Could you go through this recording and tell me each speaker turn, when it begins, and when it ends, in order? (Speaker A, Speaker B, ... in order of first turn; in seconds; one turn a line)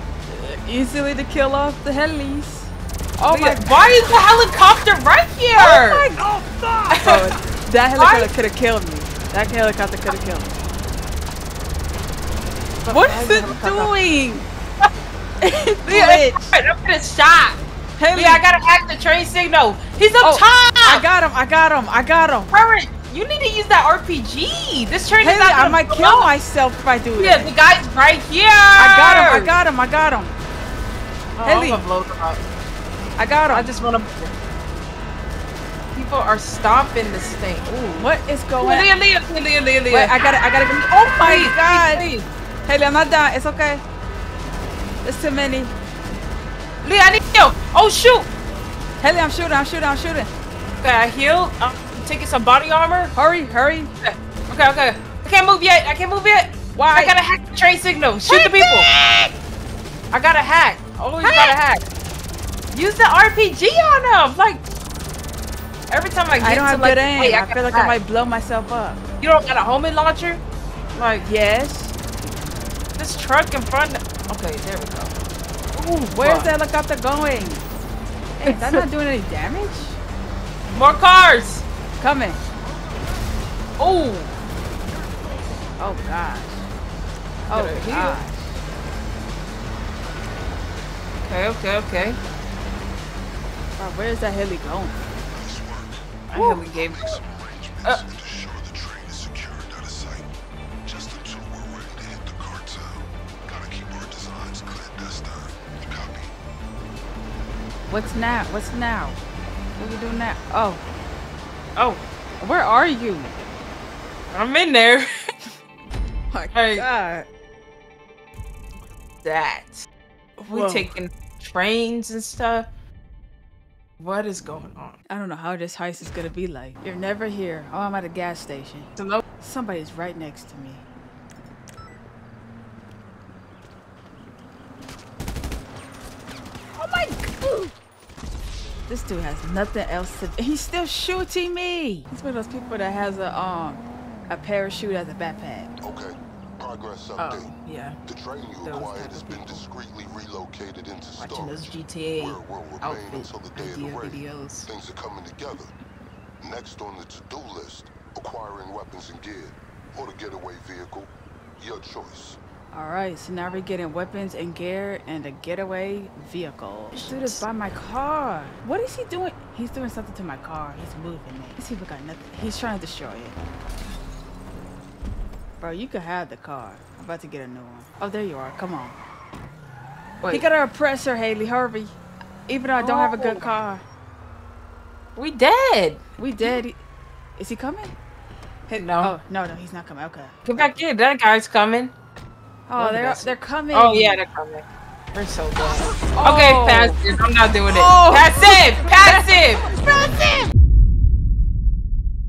Speaker A: 0.3-3.7
Speaker B: 3.3-6.1
Speaker A: 5.6-10.5
Speaker B: 6.9-7.3
Speaker B: 8.0-8.3
Speaker B: 12.8-13.9
Speaker A: 12.9-14.4
Speaker A: 15.4-16.6
Speaker B: 15.8-17.6
Speaker A: 18.0-18.4
Speaker B: 18.1-21.0
Speaker A: 20.2-22.5
Speaker B: 22.5-26.3
Speaker A: 25.2-27.5
Speaker B: 27.2-29.5
Speaker A: 28.8-30.3
Speaker B: 31.4-32.4
Speaker A: 31.4-31.8
Speaker A: 33.2-33.7
Speaker B: 33.5-34.3
Speaker B: 35.9-38.0
Speaker A: 38.0-38.9
Speaker B: 38.6-40.2
Speaker A: 39.9-42.0
Speaker B: 41.2-42.3
Speaker A: 42.6-43.8
Speaker A: 45.0-45.7
Speaker B: 46.8-48.3
Speaker A: 49.0-50.3
Speaker B: 50.8-53.1
Speaker A: 53.1-53.9
Speaker B: 54.0-58.9
Speaker A: 56.7-57.1
Speaker A: 58.3-59.3
Speaker B: 60.1-61.8
Speaker A: 61.2-61.6
Speaker B: 62.7-64.6
Speaker B: 65.9-68.0
Speaker A: 66.4-69.0
Speaker B: 69.2-70.4
Speaker B: 70.9-71.3
Speaker A: 71.2-71.9
Speaker B: 73.0-75.1
Speaker B: 75.7-76.5
Speaker A: 76.1-77.7
Speaker A: 78.4-80.0
Speaker B: 78.5-78.8
Speaker B: 80.7-81.6
Speaker A: 82.0-82.4
Speaker B: 83.8-84.3
Speaker A: 85.8-86.7
Speaker A: 87.5-88.6
Speaker B: 87.5-88.2
Speaker B: 91.2-92.2
Speaker A: 93.8-95.1
Speaker C: 95.3-100.3
Speaker B: 96.3-97.2
Speaker C: 100.8-106.3
Speaker A: 107.9-109.2
Speaker A: 109.8-110.8
Speaker B: 111.8-112.0
Speaker A: 112.4-113.3
Speaker B: 114.3-115.3
Speaker A: 116.3-117.2
Speaker B: 116.5-116.9
Speaker B: 119.2-119.8
Speaker A: 120.4-120.9
Speaker B: 120.5-122.7
Speaker B: 124.0-125.0
Speaker A: 125.1-130.8
Speaker B: 129.0-129.2
Speaker A: 136.8-137.7
Speaker A: 138.9-145.7
Speaker C: 145.8-147.5
Speaker B: 147.2-148.0
Speaker C: 148.1-155.7
Speaker B: 148.6-149.6
Speaker B: 151.2-154.7
Speaker C: 156.4-162.4
Speaker A: 162.7-173.4
Speaker B: 166.9-167.4
Speaker A: 175.6-179.0
Speaker B: 180.2-180.4
Speaker A: 180.3-181.9
Speaker A: 182.5-183.8
Speaker B: 182.8-183.5
Speaker B: 185.2-186.6
Speaker A: 186.2-186.8
Speaker A: 187.4-187.9
Speaker A: 188.7-190.7
Speaker B: 188.7-189.1
Speaker B: 190.4-191.9
Speaker A: 192.7-194.2
Speaker B: 192.8-199.7
Speaker A: 196.2-197.0
Speaker A: 197.7-200.5